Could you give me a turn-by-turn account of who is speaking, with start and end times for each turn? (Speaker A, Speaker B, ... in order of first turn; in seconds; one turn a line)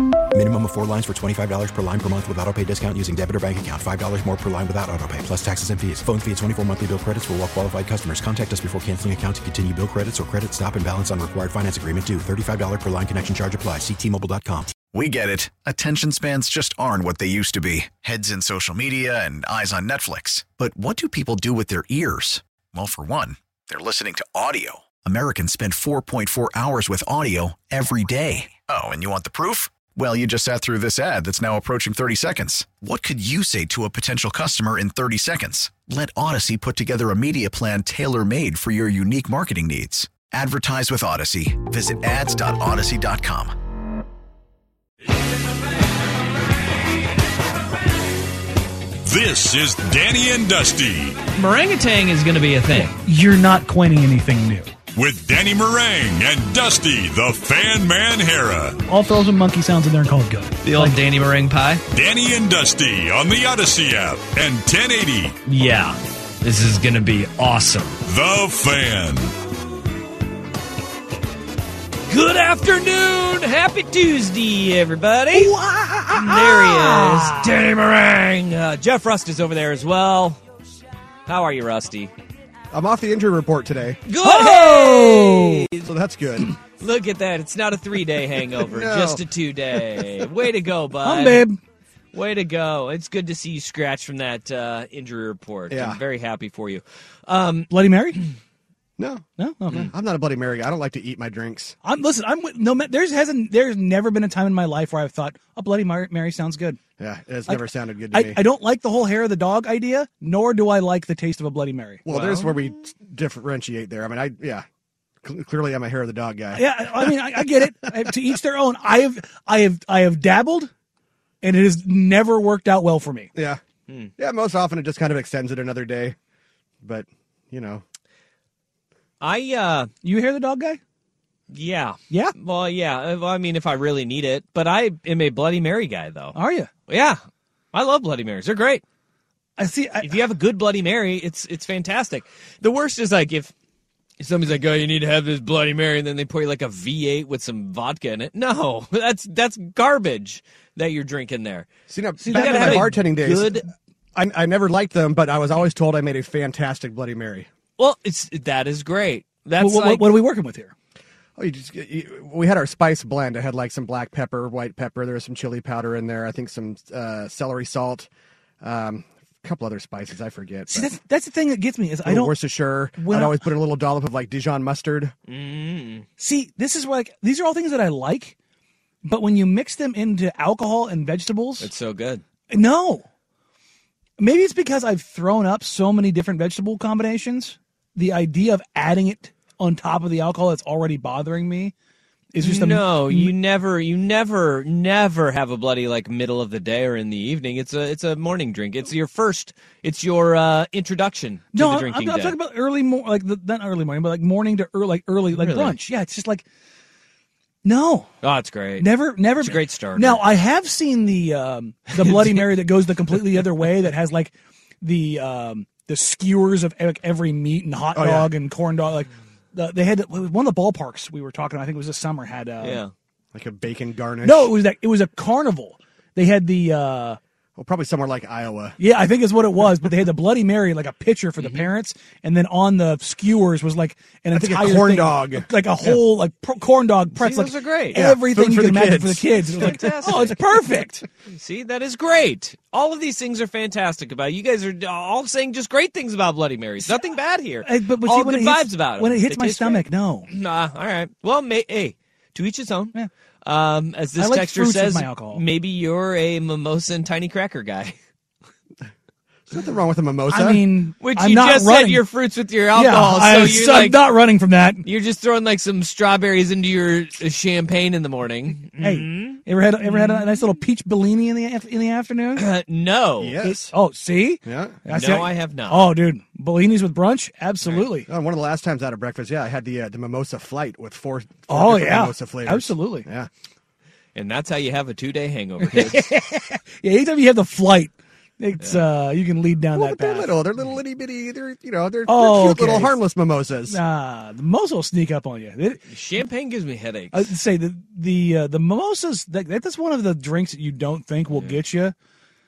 Speaker A: 0.3-14.7
Speaker B: 14.9-43.5
Speaker C: 49.0-51.2
Speaker D: 51.3-53.0
Speaker E: 52.7-54.7
Speaker C: 54.9-58.8
Speaker E: 58.9-61.0
Speaker D: 60.6-61.8
Speaker C: 61.9-65.4
Speaker D: 65.5-68.0
Speaker C: 68.0-69.3
Speaker D: 72.1-75.5
Speaker E: 75.3-77.5
Speaker D: 76.1-80.4
Speaker D: 81.2-82.1
Speaker F: 82.7-84.0
Speaker D: 84.0-85.9
Speaker E: 84.2-85.7
Speaker F: 85.8-86.5
Speaker D: 86.8-91.4
Speaker F: 88.6-89.2
Speaker E: 91.0-91.6
Speaker D: 92.1-97.7
Speaker F: 95.7-96.0
Speaker E: 97.7-98.2
Speaker F: 99.0-99.2
Speaker E: 99.4-99.9
Speaker F: 99.8-101.8
Speaker E: 101.8-106.8
Speaker F: 107.0-108.4
Speaker E: 107.5-112.0
Speaker F: 112.0-114.7
Speaker D: 112.1-112.5
Speaker F: 115.2-117.5
Speaker E: 116.5-120.7
Speaker E: 121.4-123.3
Speaker F: 123.3-123.6
Speaker F: 124.2-126.2
Speaker F: 126.8-127.8
Speaker D: 129.2-129.9
Speaker E: 130.0-130.8
Speaker D: 131.5-136.4
Speaker E: 132.1-132.3
Speaker E: 136.3-136.7
Speaker D: 136.9-137.2
Speaker D: 137.7-138.8
Speaker E: 139.6-140.1
Speaker D: 140.0-143.5
Speaker D: 144.2-151.7
Speaker F: 151.9-153.6
Speaker E: 152.2-153.0
Speaker D: 152.3-153.7
Speaker F: 154.2-157.5
Speaker D: 157.8-160.2
Speaker E: 159.6-160.7
Speaker F: 161.4-168.1
Speaker F: 168.6-170.9
Speaker E: 170.7-172.3
Speaker F: 172.1-175.1
Speaker E: 173.0-173.5
Speaker D: 175.3-176.1
Speaker E: 176.2-178.3
Speaker E: 179.0-181.7
Speaker D: 181.6-182.2
Speaker E: 182.5-183.1
Speaker E: 184.2-191.7
Speaker E: 192.3-193.3
Speaker D: 192.4-202.3
Speaker E: 201.5-206.4
Speaker D: 205.3-205.8
Speaker E: 207.7-208.1
Speaker D: 208.2-210.2
Speaker E: 208.8-222.8
Speaker D: 212.0-212.5
Speaker F: 217.9-218.3
Speaker D: 222.6-222.9
Speaker F: 223.3-224.5
Speaker E: 224.2-227.2
Speaker F: 227.6-228.8
Speaker E: 228.8-241.0
Speaker D: 231.4-231.7
Speaker F: 234.3-235.5
Speaker D: 237.1-238.0
Speaker F: 237.9-240.3
Speaker D: 239.6-240.4
Speaker D: 241.3-252.9
Speaker E: 247.6-250.3
Speaker D: 253.4-257.9
Speaker E: 254.2-255.4
Speaker F: 259.5-260.7
Speaker E: 260.3-262.0
Speaker D: 261.0-264.0
Speaker E: 262.7-264.8
Speaker D: 264.8-269.4
Speaker E: 268.8-272.4
Speaker D: 269.9-270.2
Speaker D: 272.4-273.4
Speaker F: 273.2-273.7
Speaker E: 273.4-278.1
Speaker F: 274.4-274.8
Speaker D: 274.9-275.9
Speaker F: 278.1-283.3
Speaker E: 281.5-283.1
Speaker D: 284.1-286.1
Speaker E: 285.6-290.3
Speaker F: 289.8-293.8
Speaker E: 292.1-293.0
Speaker E: 293.7-295.8
Speaker D: 295.9-297.3
Speaker E: 297.1-301.9
Speaker D: 301.3-301.6